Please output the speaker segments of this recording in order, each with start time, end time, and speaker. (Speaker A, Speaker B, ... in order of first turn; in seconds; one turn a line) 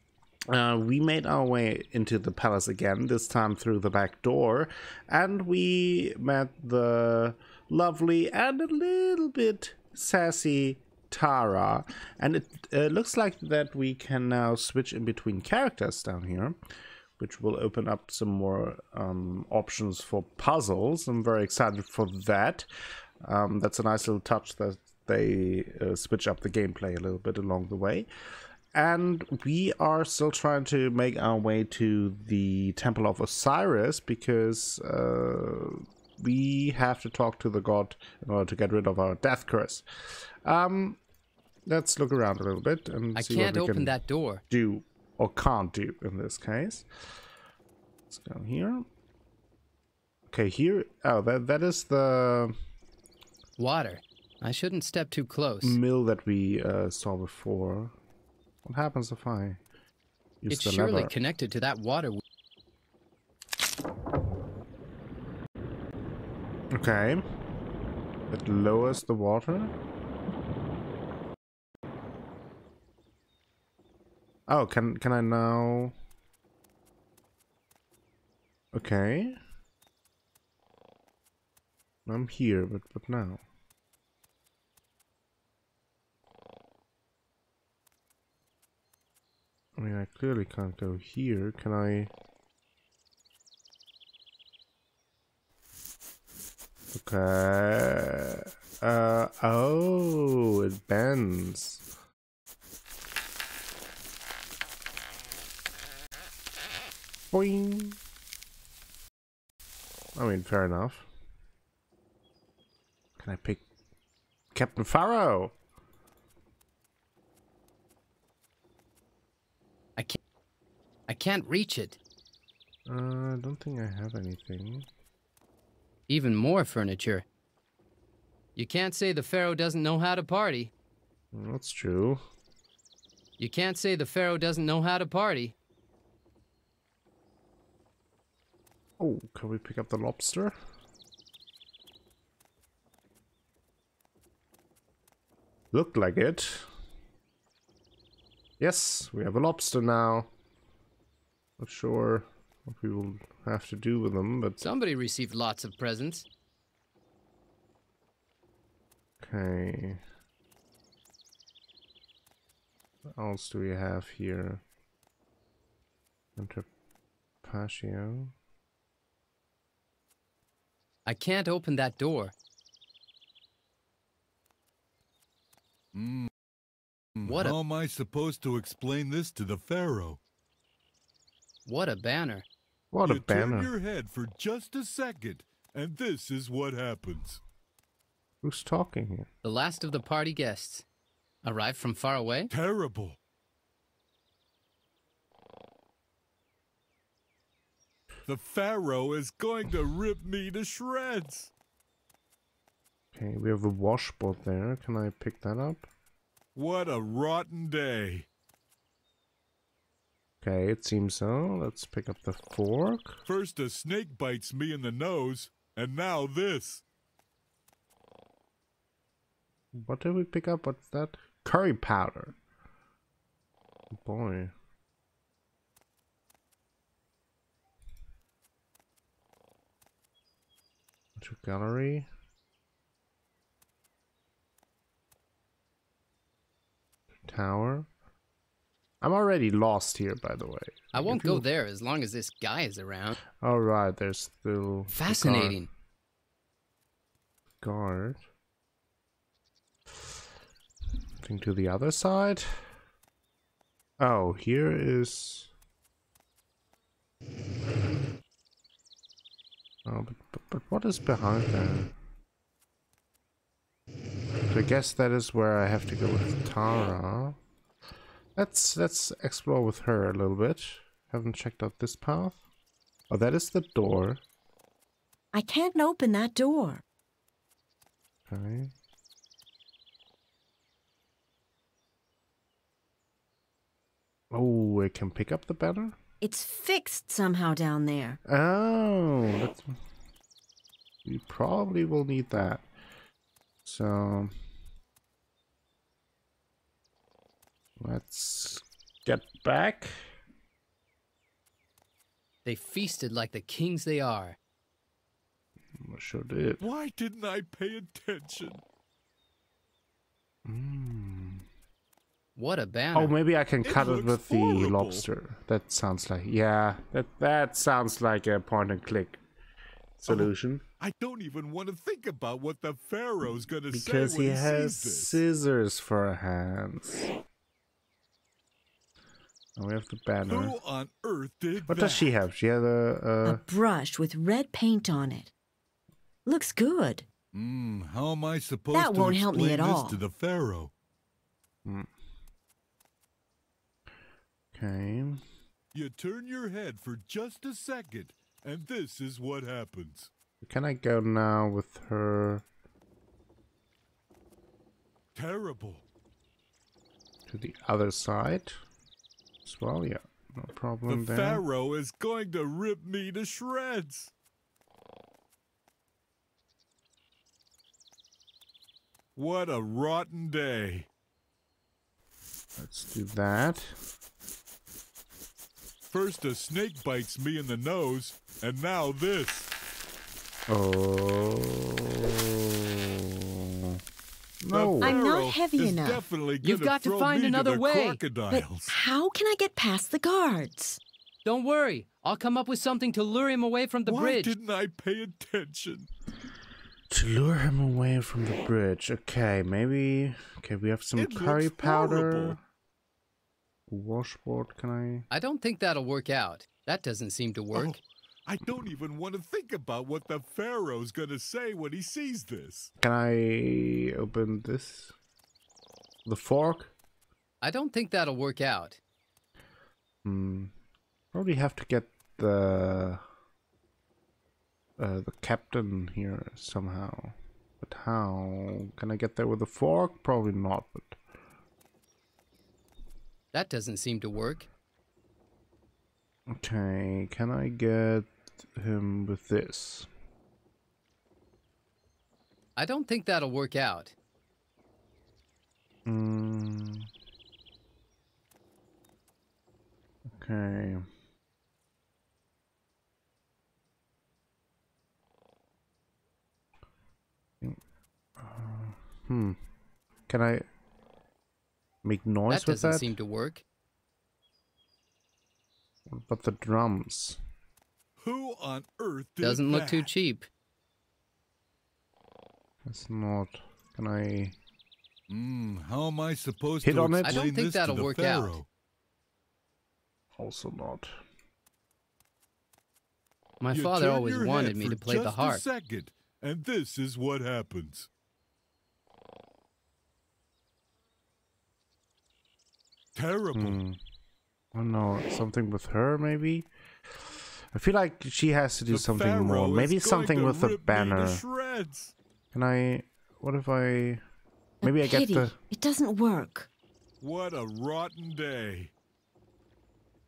Speaker A: 0.5-16.6
Speaker A: 17.2-22.7
Speaker A: 23.2-28.1
Speaker A: 28.7-39.8
Speaker A: 40.5-41.0
Speaker A: 41.7-44.0
Speaker B: 43.1-44.4
Speaker A: 44.5-46.9
Speaker A: 48.1-48.8
Speaker A: 50.3-52.5
Speaker B: 53.6-55.8
Speaker A: 55.6-57.9
Speaker A: 58.6-59.6
Speaker A: 60.4-61.1
Speaker B: 60.5-62.2
Speaker A: 66.7-67.2
Speaker A: 68.3-69.7
Speaker A: 74.5-75.9
Speaker A: 78.7-79.4
Speaker A: 82.1-83.4
Speaker A: 89.8-92.1
Speaker A: 96.9-101.8
Speaker A: 107.3-108.0
Speaker A: 110.2-111.1
Speaker A: 113.2-113.6
Speaker A: 114.5-115.5
Speaker B: 121.1-122.0
Speaker A: 122.9-124.9
Speaker B: 126.1-127.2
Speaker B: 128.6-130.7
Speaker A: 131.3-132.2
Speaker B: 133.4-135.6
Speaker A: 139.0-140.5
Speaker A: 145.7-146.7
Speaker A: 148.6-150.3
Speaker A: 151.6-154.6
Speaker B: 154.6-156.2
Speaker A: 159.2-160.0
Speaker A: 163.1-164.6
Speaker A: 166.4-166.7
Speaker A: 167.4-168.3
Speaker B: 171.1-172.3
Speaker C: 175.9-176.3
Speaker C: 177.2-180.2
Speaker B: 177.2-177.6
Speaker B: 181.6-182.4
Speaker A: 182.9-183.7
Speaker C: 183.0-187.4
Speaker A: 188.4-189.3
Speaker B: 189.4-190.9
Speaker B: 191.4-192.5
Speaker C: 192.5-193.2
Speaker C: 198.2-201.5
Speaker A: 203.1-205.9
Speaker C: 206.6-208.2
Speaker A: 210.4-213.2
Speaker C: 213.2-216.8
Speaker A: 219.7-222.4
Speaker A: 223.9-224.5
Speaker A: 231.2-232.1
Speaker A: 237.3-237.9
Speaker A: 239.0-241.5
Speaker B: 240.9-243.2
Speaker A: 243.4-245.6
Speaker B: 244.9-245.7
Speaker A: 247.6-248.2
Speaker A: 251.2-252.7
Speaker A: 254.0-255.5
Speaker A: 259.9-261.9
Speaker A: 264.5-267.4
Speaker A: 268.4-272.4
Speaker A: 273.1-274.2
Speaker D: 275.3-276.8
Speaker A: 278.3-278.7
Speaker A: 284.3-286.0
Speaker D: 286.2-288.2
Speaker A: 288.2-289.8
Speaker A: 291.1-292.7
Speaker A: 293.6-294.3
Speaker A: 297.8-300.0
Speaker B: 302.4-304.4
Speaker A: 305.8-306.6
Speaker C: 306.6-308.6
Speaker A: 310.5-311.4
Speaker B: 312.4-313.1
Speaker A: 312.9-319.2
Speaker C: 313.6-315.1
Speaker A: 320.0-320.6
Speaker C: 320.1-325.2
Speaker A: 323.7-327.1
Speaker A: 329.6-330.6
Speaker C: 330.2-332.1
Speaker A: 331.7-333.4
Speaker D: 333.2-335.3
Speaker D: 336.2-337.1
Speaker C: 337.3-340.7
Speaker D: 338.7-340.0
Speaker A: 344.5-345.2
Speaker C: 345.7-350.1
Speaker A: 350.4-352.5
Speaker C: 355.1-355.8
Speaker A: 357.3-358.6
Speaker A: 359.5-361.4
Speaker C: 360.9-364.1
Speaker C: 369.2-370.9
Speaker A: 372.6-373.8
Speaker C: 375.9-379.5
Speaker A: 380.5-383.8
Speaker A: 384.4-385.0
Speaker C: 384.5-388.8
Speaker D: 384.8-386.0
Speaker B: 386.4-388.0
Speaker D: 388.3-390.8
Speaker B: 391.2-394.3
Speaker C: 393.9-395.9
Speaker A: 396.9-402.4
Speaker C: 400.9-402.4
Speaker A: 403.7-405.1
Speaker B: 405.1-407.8
Speaker C: 407.5-412.7
Speaker A: 412.8-414.9
Speaker A: 416.1-416.7
Speaker B: 417.4-418.8
Speaker A: 420.1-420.5
Speaker A: 421.1-423.0
Speaker A: 424.8-431.0
Speaker B: 433.3-434.5
Speaker A: 436.3-439.9
Speaker B: 442.6-443.9
Speaker A: 445.9-446.9
Speaker A: 450.1-450.8
Speaker A: 458.2-459.4
Speaker A: 460.1-460.4
Speaker A: 461.9-462.9
Speaker B: 462.3-463.4
Speaker A: 465.9-467.2
Speaker C: 468.0-469.9
Speaker B: 469.2-470.3
Speaker A: 472.7-474.4
Speaker C: 475.1-478.5
Speaker A: 476.6-477.2
Speaker B: 477.0-478.4
Speaker A: 480.1-481.0
Speaker B: 483.4-485.4
Speaker C: 483.5-487.9
Speaker C: 492.9-493.6
Speaker A: 493.4-493.8
Speaker A: 494.6-496.5
Speaker A: 497.5-501.2
Speaker C: 498.7-501.9
Speaker A: 502.3-504.0
Speaker D: 504.6-506.5
Speaker A: 504.6-505.4
Speaker C: 507.0-508.7